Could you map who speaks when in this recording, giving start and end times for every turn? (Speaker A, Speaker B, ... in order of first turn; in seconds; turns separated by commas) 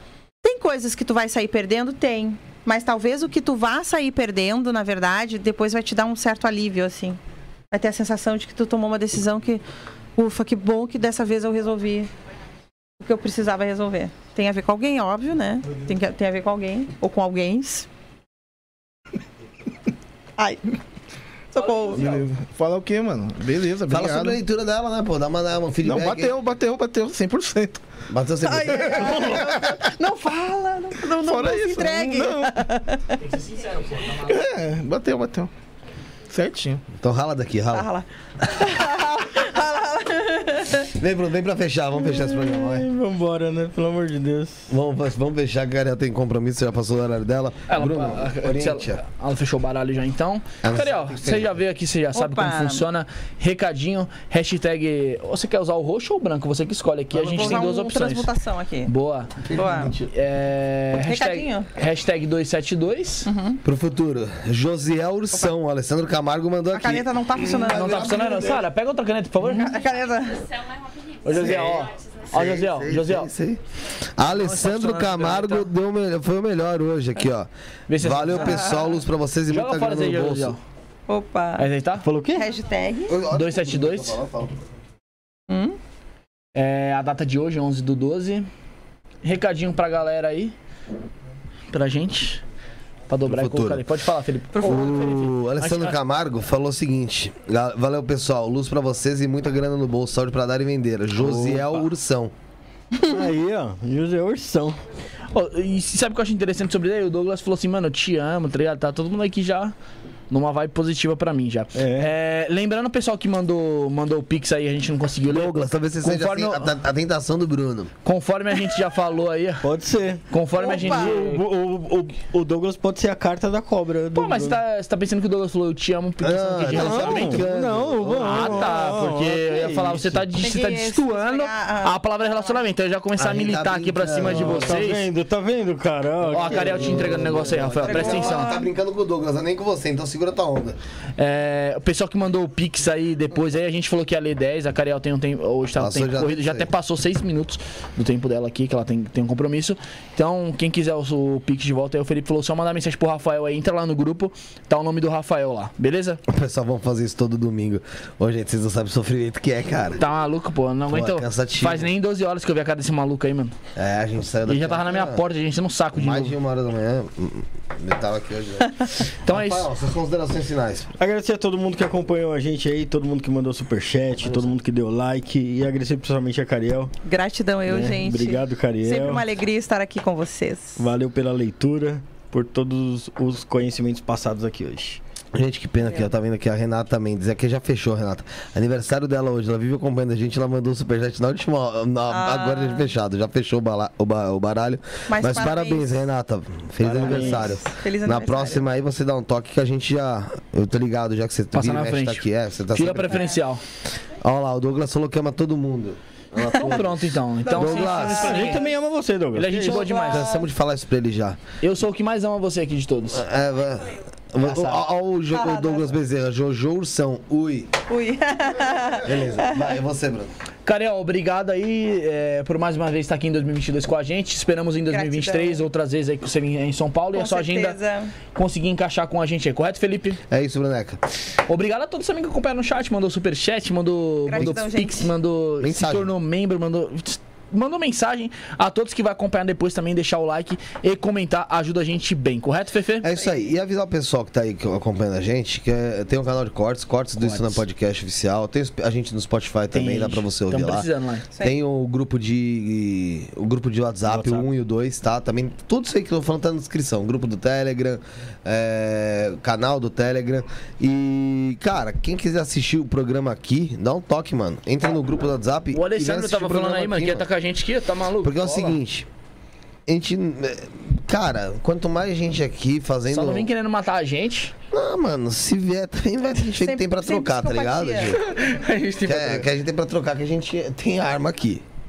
Speaker A: 0.4-7.2, Speaker A: 7.7-9.6, Speaker A: 10.2-12.1, Speaker A: 13.0-17.9, Speaker A: 20.4-20.8, Speaker A: 21.5-22.2, Speaker B: 21.8-24.4, Speaker C: 23.9-26.4, Speaker B: 25.8-28.0, Speaker C: 28.1-29.2, Speaker A: 28.4-33.2, Speaker B: 29.1-29.7, Speaker B: 31.1-32.5, Speaker D: 33.2-34.2, Speaker B: 34.2-35.5, Speaker B: 36.3-36.8, Speaker C: 36.9-37.9, Speaker A: 37.7-40.9, Speaker C: 40.9-42.9, Speaker E: 42.0-44.7, Speaker C: 44.7-49.0, Speaker D: 47.7-58.3, Speaker C: 50.6-51.5, Speaker A: 52.1-52.9, Speaker C: 57.1-57.6, Speaker A: 57.2-58.9, Speaker D: 58.9-63.3, Speaker C: 59.4-60.1, Speaker A: 59.5-59.9, Speaker A: 61.0-61.7, Speaker A: 63.2-63.6, Speaker C: 63.6-68.6, Speaker A: 66.7-68.6, Speaker D: 67.5-69.9, Speaker A: 69.4-70.5, Speaker D: 71.2-73.3, Speaker C: 71.3-73.6, Speaker C: 74.1-80.5, Speaker D: 74.4-75.6, Speaker D: 77.9-78.8, Speaker A: 78.4-78.9, Speaker D: 79.5-80.6, Speaker A: 81.1-81.7, Speaker D: 81.6-82.1, Speaker E: 82.0-82.5, Speaker A: 82.3-83.2, Speaker C: 83.1-84.5, Speaker D: 83.3-84.2, Speaker A: 85.5-85.8, Speaker D: 86.5-88.5, Speaker D: 89.2-90.5, Speaker D: 91.7-92.4, Speaker D: 93.1-95.9, Speaker C: 93.2-93.8, Speaker A: 94.5-95.2, Speaker C: 94.6-102.3, Speaker E: 101.2-101.6, Speaker E: 103.0-104.8, Speaker D: 105.3-109.7, Speaker D: 110.3-116.7, Speaker E: 111.8-112.1, Speaker C: 115.3-117.9, Speaker D: 118.0-119.7, Speaker E: 119.6-124.6, Speaker D: 120.3-121.4, Speaker A: 120.6-121.1, Speaker D: 124.1-127.5, Speaker C: 126.2-128.8, Speaker E: 126.7-130.2, Speaker D: 128.1-135.0, Speaker C: 129.9-130.2, Speaker A: 130.4-132.6, Speaker C: 133.2-134.9, Speaker E: 134.2-137.7, Speaker D: 136.3-138.5, Speaker C: 136.3-140.8, Speaker A: 137.8-138.7, Speaker D: 141.2-156.2, Speaker C: 145.8-146.7, Speaker C: 156.3-160.0, Speaker D: 160.0-163.5, Speaker C: 160.9-161.9, Speaker C: 163.7-165.2, Speaker D: 164.5-166.3, Speaker C: 165.9-170.9, Speaker D: 169.2-169.7, Speaker E: 171.0-176.9, Speaker C: 174.2-174.5, Speaker A: 177.0-180.8, Speaker E: 177.7-179.3, Speaker E: 180.8-185.0, Speaker C: 185.3-203.3, Speaker A: 192.1-192.9, Speaker A: 195.1-196.1, Speaker E: 196.8-197.5, Speaker A: 197.1-198.6, Speaker D: 201.5-203.6, Speaker C: 204.2-208.4, Speaker D: 206.6-208.7, Speaker A: 207.4-208.6, Speaker E: 207.9-209.9, Speaker D: 209.3-210.4, Speaker A: 209.6-210.4, Speaker C: 210.0-211.4, Speaker D: 211.6-213.2, Speaker C: 213.1-217.7, Speaker D: 214.4-214.8, Speaker A: 215.3-215.9, Speaker A: 217.9-219.8, Speaker C: 219.0-220.3, Speaker D: 220.7-227.8, Speaker A: 224.9-225.6, Speaker A: 227.1-228.1, Speaker D: 228.3-230.2, Speaker C: 230.3-231.0, Speaker D: 231.5-243.1, Speaker A: 234.3-235.1, Speaker C: 235.6-236.1, Speaker C: 243.0-250.9, Speaker E: 247.2-247.6, Speaker D: 249.7-251.3, Speaker C: 251.4-267.2, Speaker E: 254.1-254.4, Speaker D: 265.7-268.8, Speaker C: 268.2-269.1, Speaker C: 269.9-273.5, Speaker D: 273.1-274.5, Speaker C: 274.7-278.2, Speaker A: 276.4-278.2, Speaker D: 278.1-279.4, Speaker C: 279.0-281.6